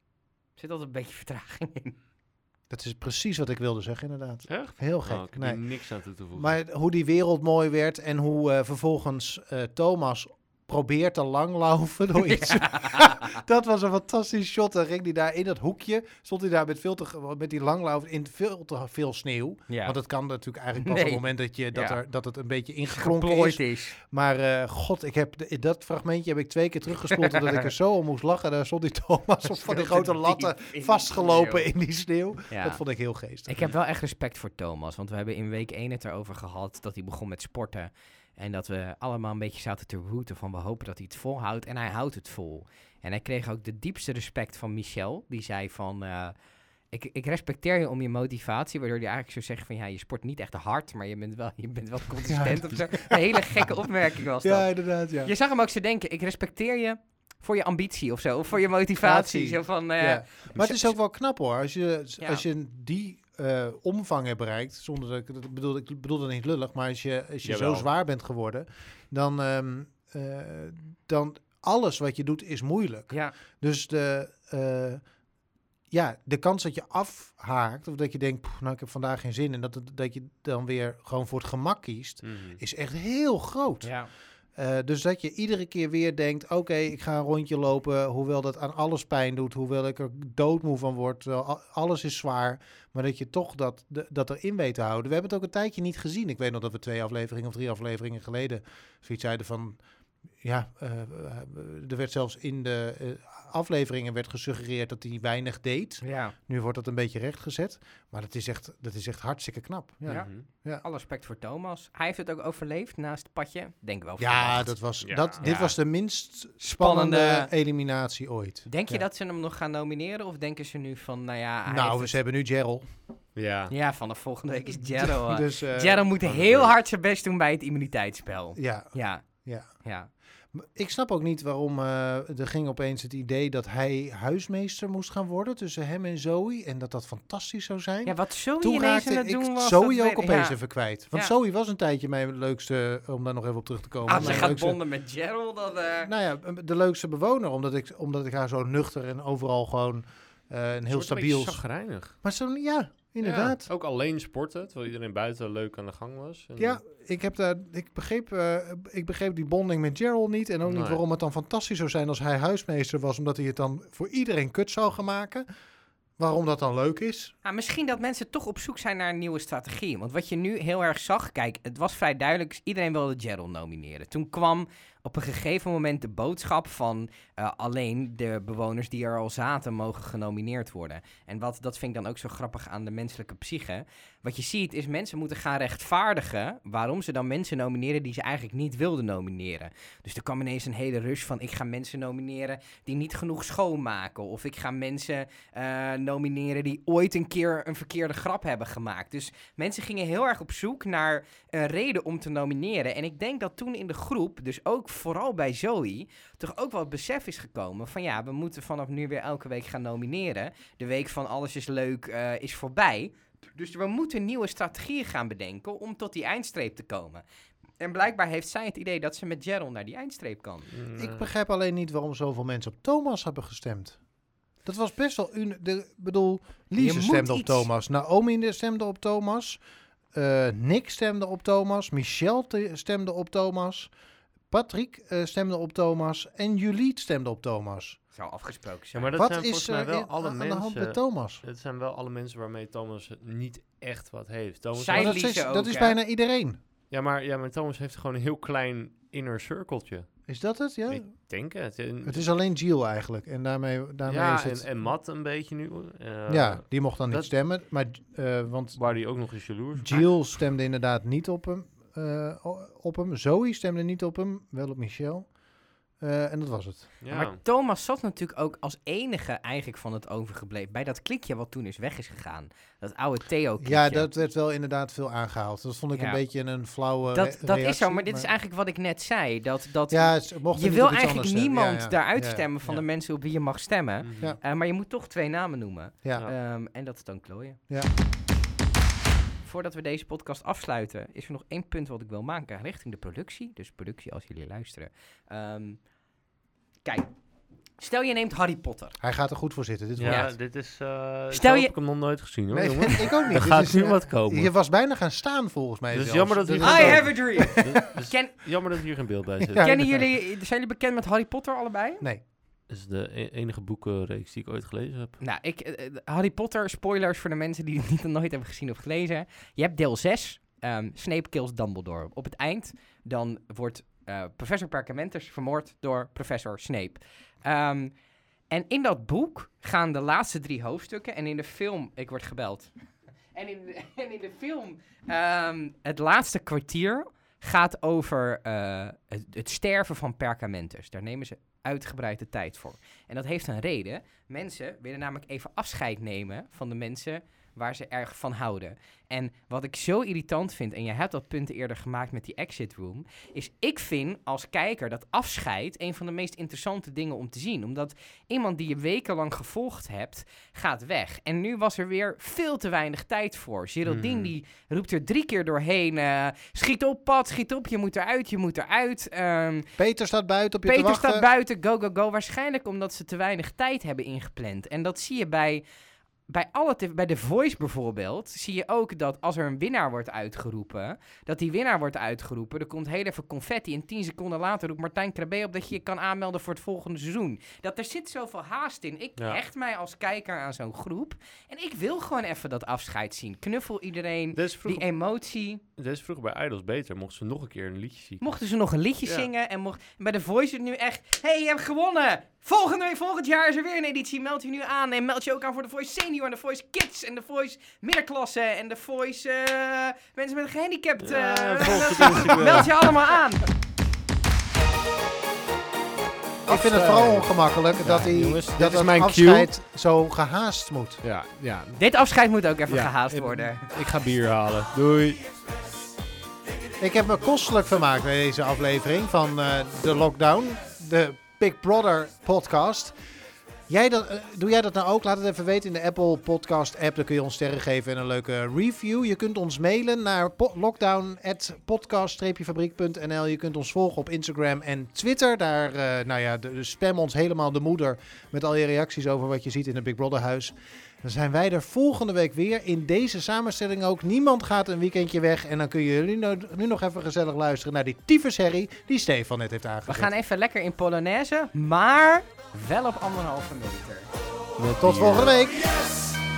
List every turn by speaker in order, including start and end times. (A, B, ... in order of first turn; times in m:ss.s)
0:00.6-0:01.9 A
0:02.7-0:05.6 B
0:04.5-0:06.6 C
0:06.3-0:33.6 B
0:12.4-0:13.0 A
0:19.7-0:20.0 A
0:20.8-0:22.0 A
0:22.9-0:23.9 A
0:27.1-0:27.6 A
0:29.6-0:31.7 A
0:32.5-0:32.8 A
0:33.4-0:46.3 A
0:46.9-1:00.8 A
0:52.3-0:53.7 B
0:54.4-0:55.3 B
0:59.0-1:15.0 B
1:07.4-1:07.9 C
1:13.1-1:13.3 A
1:15.9-1:23.9 B
1:22.2-1:22.6 C
1:23.8-1:24.1 A
1:24.6-1:39.8 B
1:40.4-1:50.8 B
1:46.0-1:46.3 A
1:50.1-1:50.4 C
1:50.8-1:54.7 A
1:54.2-1:59.0 B
1:55.0-1:55.4 C
1:55.4-1:55.7 A
1:56.6-1:57.5 A
1:58.7-2:02.2 A
2:01.7-2:02.8 B
2:03.4-2:03.7 C
2:03.7-2:09.2 A
2:04.9-2:06.0 B
2:06.2-2:06.7 C
2:08.6-2:09.7 B
2:09.8-2:10.1 A
2:10.5-2:24.8 B
2:18.0-2:20.6 A
2:24.0-2:26.1 A
2:24.2-2:24.5 C
2:26.0-2:31.6 B
2:30.9-2:32.2 C
2:32.2-2:33.7 B
2:33.2-2:36.8 C
2:36.6-2:45.4 B
2:40.6-2:41.0 C
2:46.2-2:47.3 B
2:47.4-3:37.2 A
3:37.8-3:40.7 A
3:40.7-3:41.3 C
3:41.0-3:44.0 B
3:44.6-3:49.6 B
3:46.8-3:47.7 A
3:50.1-3:53.9 B
3:54.5-3:58.0 B
3:58.1-3:59.2 A
3:58.9-4:05.2 C
3:59.2-4:01.4 B
4:04.7-4:06.0 A
4:04.9-4:06.6 B
4:06.9-4:10.1 C
4:10.3-4:11.1 B
4:10.9-4:12.2 C
4:12.0-4:14.6 B
4:14.0-4:17.3 C
4:16.3-4:18.8 B
4:18.7-4:20.1 C
4:19.8-4:25.3 B
4:26.0-4:26.9 B
4:27.0-4:27.4 C
4:27.1-4:34.1 A
4:33.6-4:38.3 B
4:35.9-4:36.2 A
4:37.1-4:47.6 A
4:39.9-4:42.4 B
4:44.0-4:44.4 C
4:49.4-4:55.8 A
4:56.8-4:57.1 A
4:57.8-4:59.0 A
4:59.0-5:00.3 B
5:00.0-5:04.5 C
5:00.0-5:00.3 A
5:01.3-5:01.7 A
5:02.5-5:07.8 B
5:05.9-5:10.1 C
5:06.6-5:08.4 A
5:09.5-5:09.9 B
5:09.6-5:12.0 A
5:12.7-5:15.2 C
5:15.2-5:27.9 A
5:28.5-5:32.7 A
5:33.3-6:09.7 A
6:03.8-6:04.3 C
6:09.8-6:11.3 B
6:10.6-6:15.6 A
6:16.3-6:35.6 A
6:34.3-6:34.8 C
6:35.8-6:38.3 C
6:38.2-6:53.4 A
6:39.0-6:39.3 C
6:51.0-6:52.9 C
6:52.0-6:52.3 B
6:56.5-6:59.5 C
6:56.5-7:01.0 B
7:01.0-7:01.8 C
7:01.7-7:03.6 A
7:02.7-7:05.2 C
7:06.8-7:12.9 B
7:13.7-7:40.1 B
7:39.9-7:44.1 A
7:44.6-7:45.3 C
7:44.8-7:45.6 B